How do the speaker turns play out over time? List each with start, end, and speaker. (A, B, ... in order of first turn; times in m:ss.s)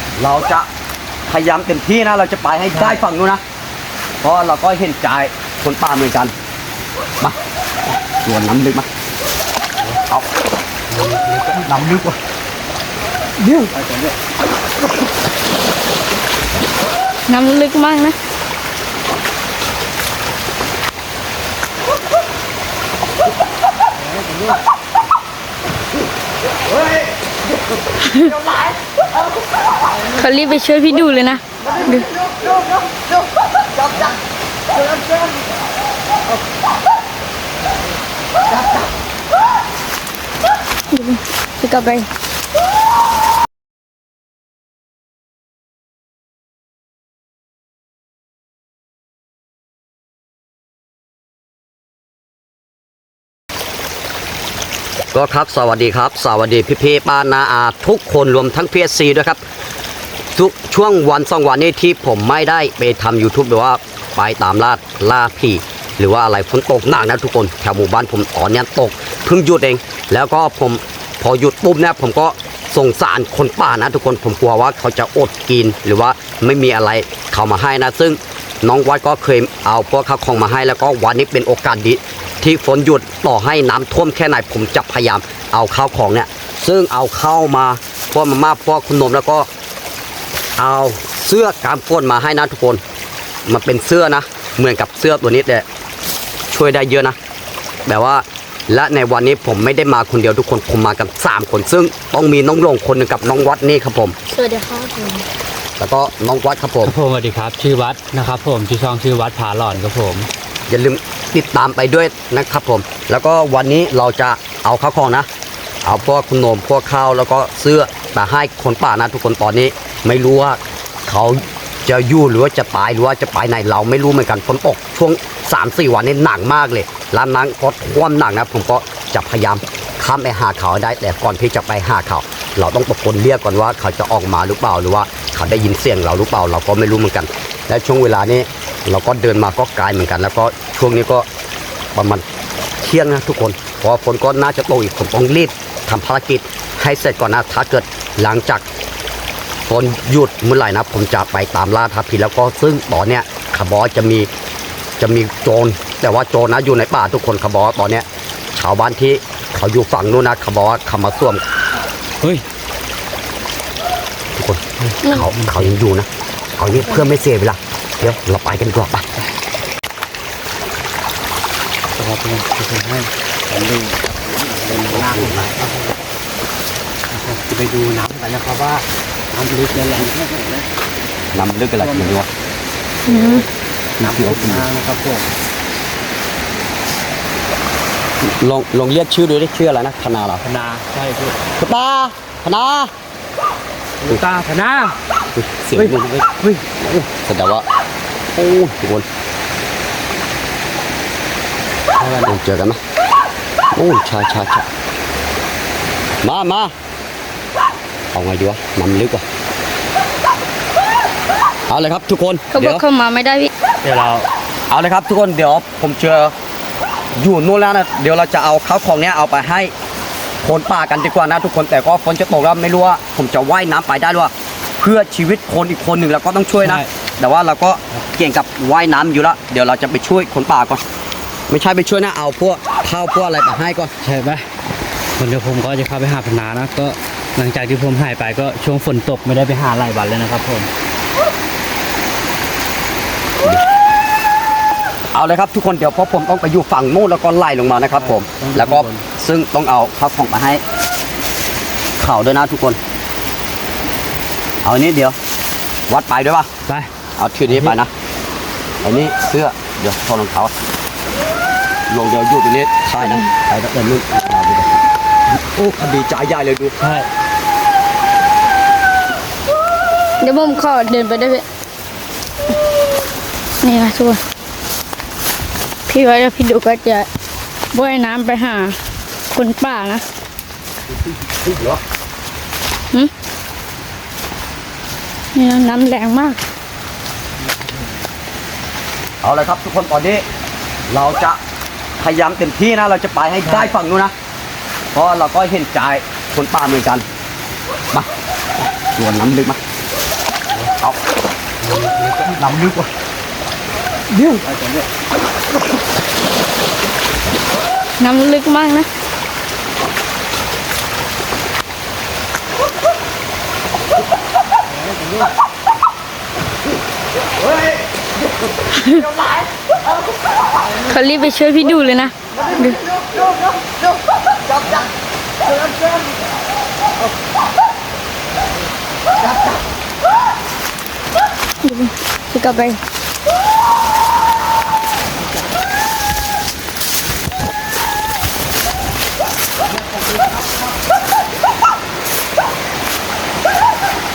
0:00.2-0:00.7 A
0:01.3-0:03.4 A
0:02.7-0:03.0 B
0:04.2-0:06.3 A
0:08.0-0:08.9 A
0:10.9-0:11.6 B
0:11.5-0:12.2 A
0:13.4-0:13.7 A
0:13.7-0:14.1 B
0:17.3-0:18.2 C
0:24.2-0:24.5 B
0:28.0-0:28.4 C
0:30.0-0:32.1 C
0:40.9-0:42.1 C
0:55.1-0:59.4 A
1:00.3-1:29.5 A
1:30.6-1:32.8 A
1:33.4-1:35.6 A
1:36.5-1:37.2 A
1:37.8-1:44.2 A
1:44.3-1:45.2 C
1:45.8-1:46.9 A
1:46.8-1:50.3 B
1:50.7-1:55.3 A
1:55.8-2:21.2 A
2:21.9-2:22.2 A
2:22.8-2:28.6 A
2:29.7-2:34.3 A
2:35.0-2:41.4 A
2:44.4-2:49.0 A
2:44.8-2:45.7 B
2:52.0-2:55.9 B
2:55.0-2:55.5 A
2:57.1-3:00.6 B
3:01.3-3:02.3 A
3:01.8-3:02.1 B
3:03.0-3:05.2 B
3:03.0-3:03.4 C
3:04.0-3:04.6 A
3:08.2-3:10.4 A
3:10.4-3:11.4 B
3:11.6-3:12.9 A
3:14.0-3:14.9 B
3:15.3-3:16.2 A
3:15.7-3:16.9 B
3:16.9-3:17.6 A
3:18.3-3:19.0 A
3:22.0-3:22.3 B
3:22.2-3:22.8 A
3:23.7-3:24.6 A
3:26.2-3:26.7 A
3:28.1-3:29.2 A
3:31.7-3:32.8 A
3:32.5-3:33.5 C
3:33.8-3:34.3 B
3:34.7-3:36.3 A
3:37.1-3:39.7 A
3:40.4-3:50.8 A
3:46.6-3:46.9 B
3:51.5-3:53.9 A
3:54.0-3:54.5 B
3:55.2-4:00.7 B
4:05.1-4:10.6 A
4:07.9-4:09.0 B
4:12.0-4:12.8 A
4:14.6-4:15.2 A
4:15.9-4:16.5 A
4:17.2-4:17.9 A
4:17.5-4:17.7 B
4:18.8-4:20.5 A
4:21.9-4:24.7 A
4:23.0-4:23.2 C
4:25.5-4:26.8 A
4:26.8-4:27.1 B
4:30.2-4:31.4 C
4:33.6-4:34.2 C
4:35.9-4:37.1 C
4:37.7-4:38.8 C
4:39.3-4:40.0 C
4:41.2-4:41.8 A
4:45.3-4:46.4 C
4:49.2-4:50.2 A
4:50.9-4:51.4 A
4:52.0-4:54.1 A
4:53.4-4:53.7 B
4:54.9-4:57.0 A
4:58.7-4:59.6 A
5:01.6-5:02.4 B
5:02.3-5:02.9 A
5:04.1-5:04.4 A
5:04.4-5:04.9 B
5:08.0-5:08.9 C
5:14.9-5:15.3 B
5:18.7-5:19.1 C
5:20.7-5:22.9 C
5:31.6-5:32.8 C